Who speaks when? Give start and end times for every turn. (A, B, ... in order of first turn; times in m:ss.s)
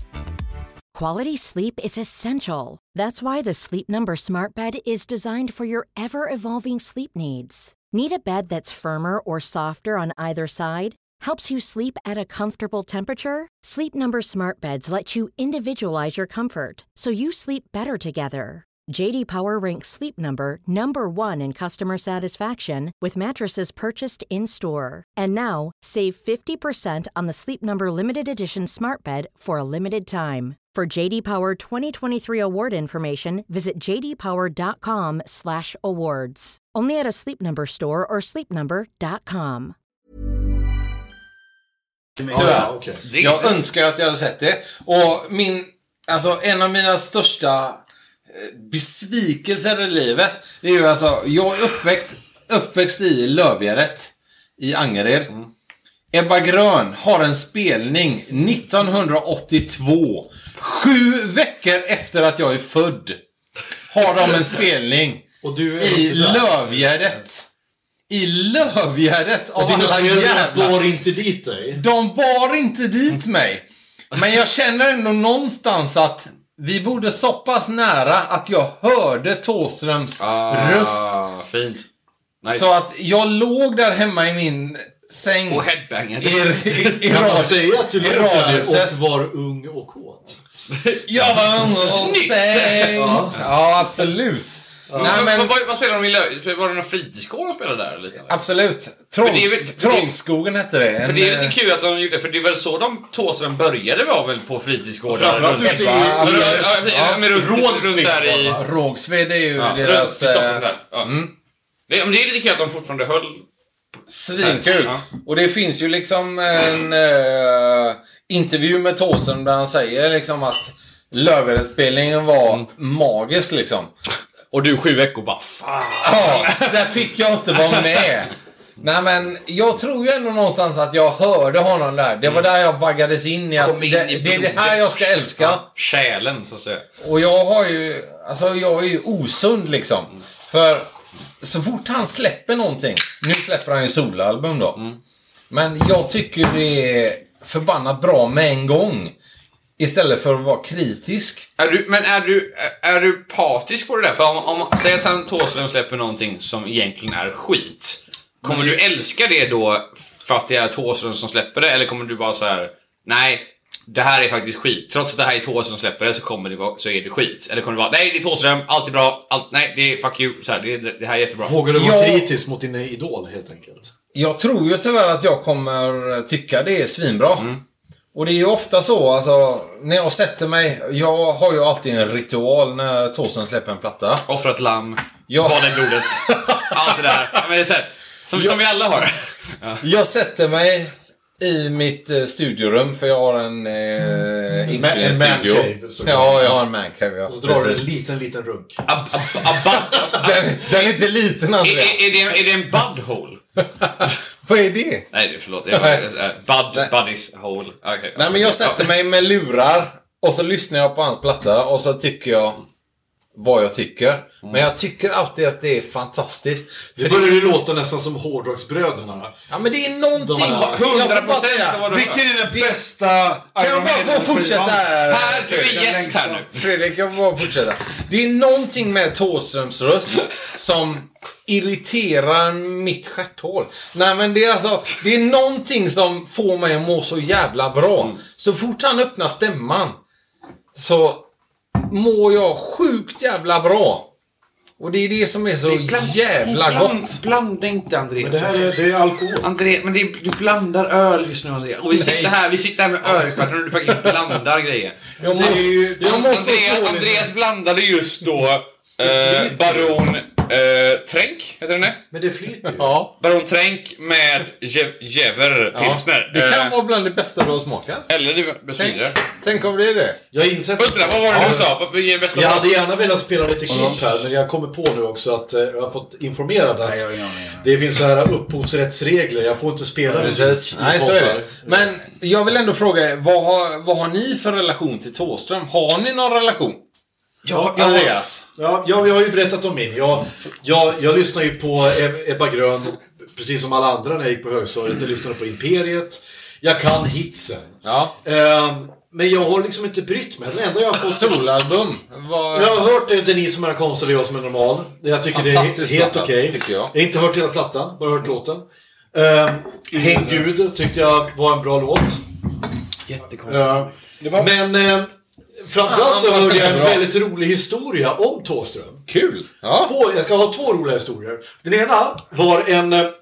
0:00.9-0:39.7 A
0:42.2-0:42.6 B
0:42.3-0:43.0 C
0:42.3-0:55.3 D
0:43.0-0:43.6 E
0:56.1-1:03.2 D
1:03.9-1:05.2 D
1:05.4-1:06.8 C
1:05.8-1:07.5 D
1:08.1-1:10.8 D
1:09.6-1:11.8 C
1:11.7-1:21.2 D
1:20.2-1:21.9 E
1:22.4-1:22.7 E
1:22.5-1:25.6 D
1:25.5-1:27.4 E
1:26.2-1:28.9 D
1:27.0-1:30.4 C
1:30.7-1:33.5 E
1:31.1-1:35.5 D
1:32.9-1:33.4 C
1:34.9-1:35.2 C
1:35.0-1:38.4 E
1:38.3-1:41.5 D
1:39.2-1:40.1 E
1:41.0-1:48.6 E
1:45.1-1:46.7 C
1:45.5-1:51.3 D
1:49.6-1:51.1 E
1:51.9-1:53.4 E
1:54.1-2:03.9 D
1:54.4-1:55.0 E
2:04.5-2:07.0 E
2:06.0-2:15.6 D
2:07.5-2:08.1 E
2:13.6-2:16.8 E
2:17.0-2:20.9 D
2:21.4-2:24.8 D
2:25.5-2:29.1 D
2:29.8-2:31.4 D
2:31.6-2:51.6 E
2:38.4-2:38.8 D
2:51.4-2:53.9 C
2:51.7-2:52.2 D
2:54.1-2:57.5 D
2:58.1-3:04.2 D
3:04.3-3:09.8 E
3:05.3-3:07.3 D
3:09.8-3:17.8 D
3:14.7-3:16.6 C
3:17.2-3:18.8 C
3:18.8-3:20.4 E
3:19.8-3:22.0 D
3:21.6-3:23.4 E
3:23.8-3:25.1 D
3:25.1-3:28.9 E
3:25.7-3:26.0 D
3:28.2-3:32.6 D
3:33.3-3:37.6 D
3:37.0-3:39.3 C
3:39.5-3:41.9 D
3:40.1-3:40.8 C
3:40.3-3:42.2 E
3:41.9-3:44.9 B
3:42.5-3:42.8 D
3:43.6-3:45.9 D
3:45.0-3:46.7 E
3:45.5-3:46.4 B
3:46.5-4:00.0 D
4:00.7-4:01.3 D
4:01.8-4:04.1 D
4:04.8-4:07.2 D
4:05.6-4:08.8 E
4:08.2-4:09.5 C
4:09.4-4:22.0 E
4:11.9-4:12.3 D
4:13.0-4:14.1 D
4:15.2-4:17.2 C
4:15.2-4:16.7 D
4:19.0-4:20.0 C
4:22.1-4:22.9 C
4:22.7-4:23.1 D
4:23.2-4:26.8 E
4:25.7-4:28.1 D
4:28.1-4:29.2 E
4:28.8-4:30.2 D
4:30.3-4:31.7 C
4:30.8-4:32.8 E
4:31.3-4:31.6 D
4:32.3-4:41.9 C
4:33.7-4:34.0 B
4:36.8-4:37.7 B
4:40.1-4:46.8 D
4:47.4-4:48.0 E
4:47.5-5:01.4 C
4:47.7-4:48.4 D
4:57.8-4:58.1 D
5:01.1-5:02.8 D
5:02.5-5:12.2 C
5:05.3-5:06.9 D
5:10.0-5:10.4 B
5:13.1-5:13.9 E
5:13.4-5:19.0 C
5:14.2-5:14.5 D
5:15.8-5:17.0 D
5:19.1-5:19.9 D
5:19.8-5:23.1 C